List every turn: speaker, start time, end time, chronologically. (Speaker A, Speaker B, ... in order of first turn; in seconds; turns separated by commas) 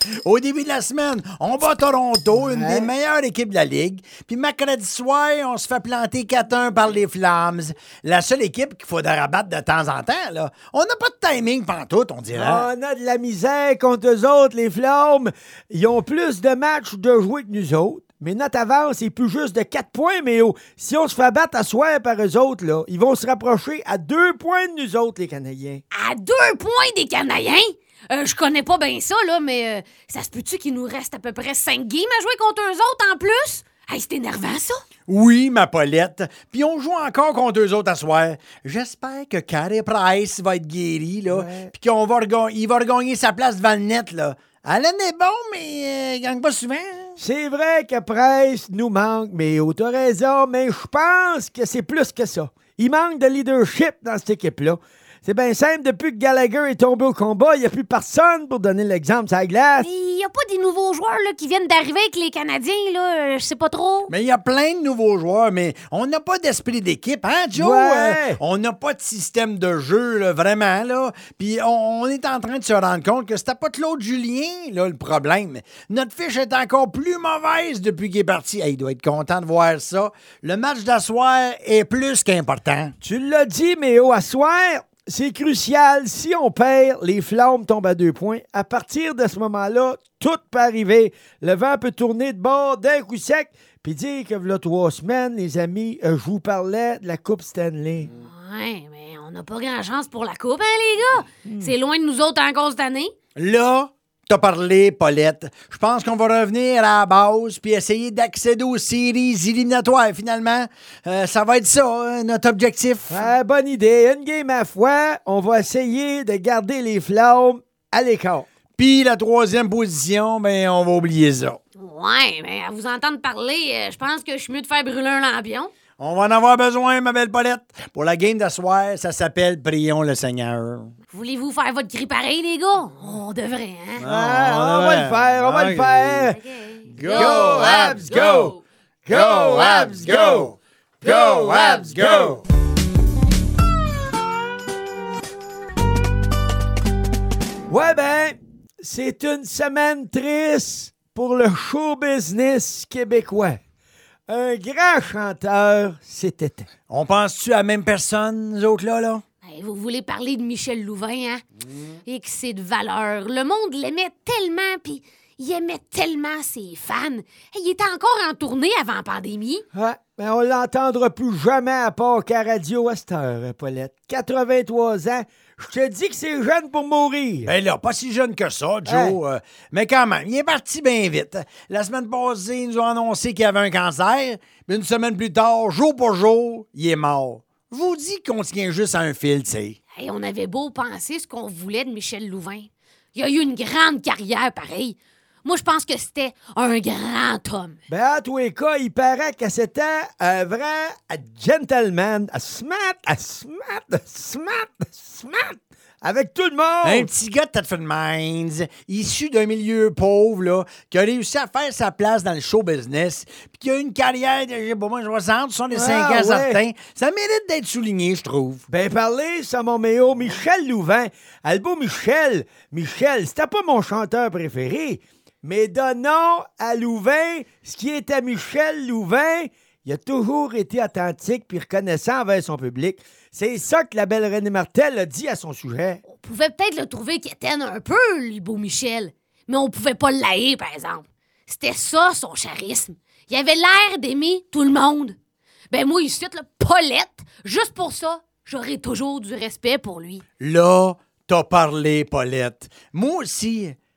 Speaker A: 0.2-12.7, Speaker B: 2.4-2.9, Speaker B: 12.3-25.8, Speaker C: 25.9-34.8, Speaker A: 35.1-47.2, Speaker B: 41.3-41.7, Speaker B: 47.2-59.9, Speaker C: 59.8-64.1, Speaker A: 64.1-82.9, Speaker B: 67.5-68.4, Speaker B: 83.0-98.1, Speaker C: 98.2-103.1, Speaker B: 101.5-101.7, Speaker A: 103.4-113.3, Speaker B: 113.1-118.5, Speaker A: 118.8-121.6, Speaker C: 121.8-125.7, Speaker A: 126.0-130.9, Speaker C: 131.1-134.0, Speaker A: 134.0-136.3, Speaker B: 134.1-136.4, Speaker C: 136.3-138.6, Speaker A: 137.0-138.5, Speaker B: 137.0-142.4, Speaker A: 139.1-142.4, Speaker B: 147.7-153.6, Speaker B: 154.3-156.7, Speaker A: 156.9-159.2, Speaker C: 159.4-161.4, Speaker C: 162.1-169.6, Speaker B: 169.7-177.5, Speaker A: 177.4-189.8, Speaker B: 178.8-179.2, Speaker C: 189.9-197.8, Speaker B: 197.9-207.1, Speaker A: 206.8-218.7, Speaker B: 215.7-216.6, Speaker B: 218.7-236.0, Speaker C: 236.1-245.2, Speaker C: 245.7-250.2, Speaker A: 250.4-253.8